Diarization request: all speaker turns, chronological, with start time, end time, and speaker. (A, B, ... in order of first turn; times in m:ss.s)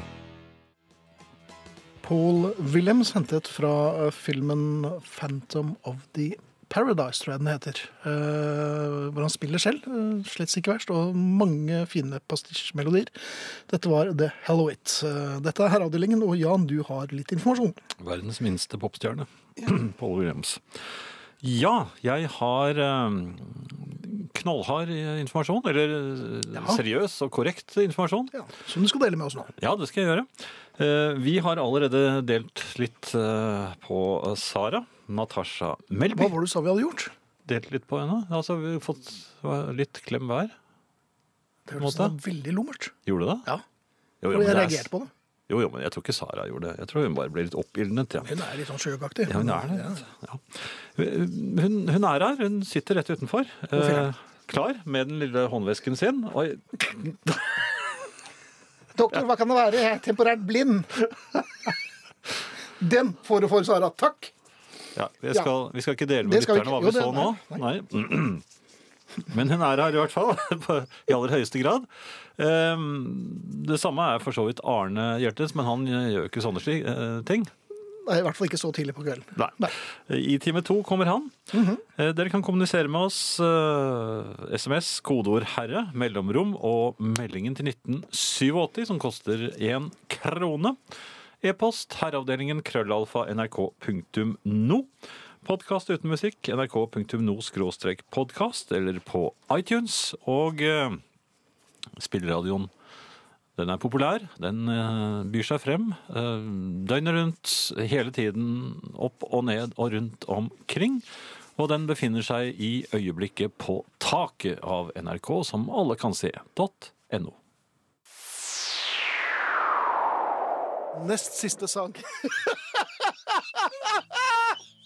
0:02.0-0:17.8 A
0:18.0-0:20.6 B
0:21.4-0:28.3 B
0:26.6-0:26.8 A
0:28.3-0:29.5 A
0:29.6-0:36.4 B
0:36.1-0:37.1 A
0:37.4-0:40.5 B
0:41.7-0:42.9 A
0:41.8-0:42.1 B
0:43.1-0:43.5 B
0:44.2-0:44.9 B
0:44.3-0:45.1 A
0:45.5-0:48.4 B
0:48.2-0:50.0 A
0:49.3-0:57.5 B
0:53.7-0:54.1 A
0:59.0-1:01.7 A
1:02.8-1:04.3 A
1:05.0-1:08.4 B
1:06.2-1:07.6 A
1:09.3-1:17.5 B
1:17.9-1:19.7 A
1:19.4-1:21.4 B
1:21.5-1:21.8 A
1:22.0-1:30.8 B
1:31.4-1:34.9 B
1:35.4-1:41.0 B
1:42.0-1:42.7 B
1:43.6-1:51.0 B
1:51.6-1:57.4 B
2:00.9-2:04.3 A